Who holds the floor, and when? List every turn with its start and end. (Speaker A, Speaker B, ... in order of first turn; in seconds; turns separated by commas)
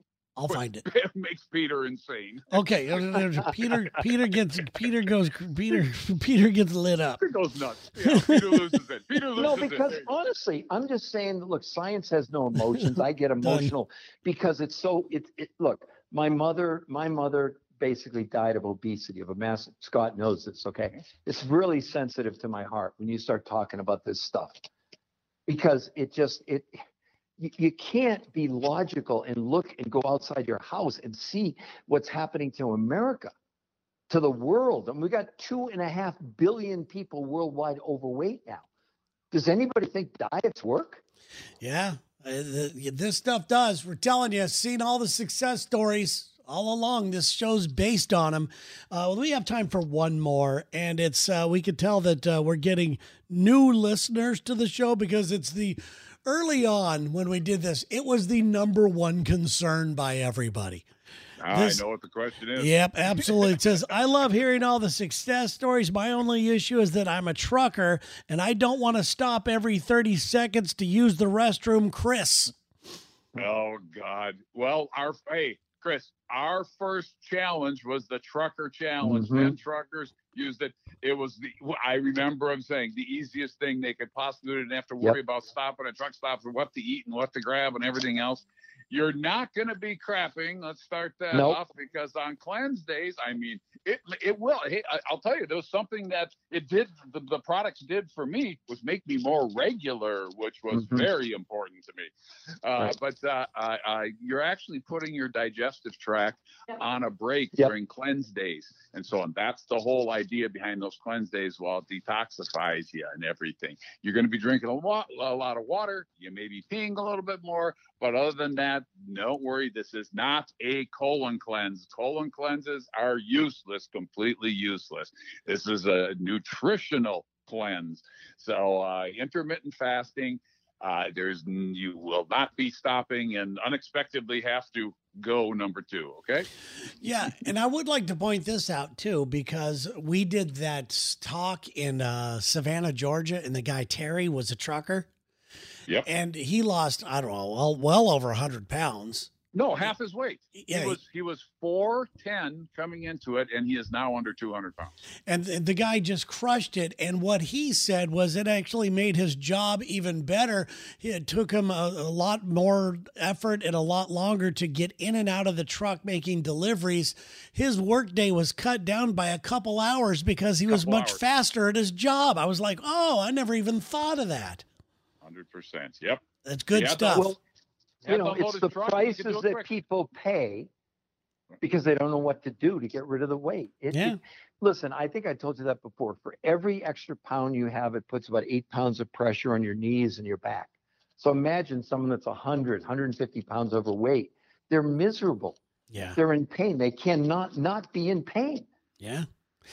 Speaker A: 0.3-0.8, Speaker B: 0.5-2.6, Speaker A: 2.5-7.2, Speaker B: 7.2-10.1, Speaker A: 8.0-8.7, Speaker C: 9.4-24.6, Speaker A: 13.4-13.7, Speaker C: 25.5-26.7, Speaker C: 27.4-33.3, Speaker C: 34.1-38.6, Speaker C: 39.3-41.0, Speaker A: 41.6-60.8, Speaker B: 61.4-63.6, Speaker A: 61.5-61.8, Speaker A: 62.5-72.5, Speaker B: 73.3-102.1, Speaker C: 79.0-79.5, Speaker C: 91.3-91.6, Speaker C: 100.7-101.1, Speaker B: 102.6-136.5, Speaker A: 137.0-145.1, Speaker A: 146.0-149.9, Speaker B: 149.5-154.9, Speaker A: 150.5-151.0, Speaker A: 155.3-174.6, Speaker B: 170.7-171.2, Speaker B: 175.2-177.3, Speaker A: 176.4-177.3, Speaker C: 177.1-177.4, Speaker B: 178.0-179.7, Speaker C: 178.1-180.7, Speaker C: 181.6-195.6, Speaker A: 183.9-184.2, Speaker A: 195.9-196.2, Speaker C: 196.1-198.7, Speaker A: 199.0-199.2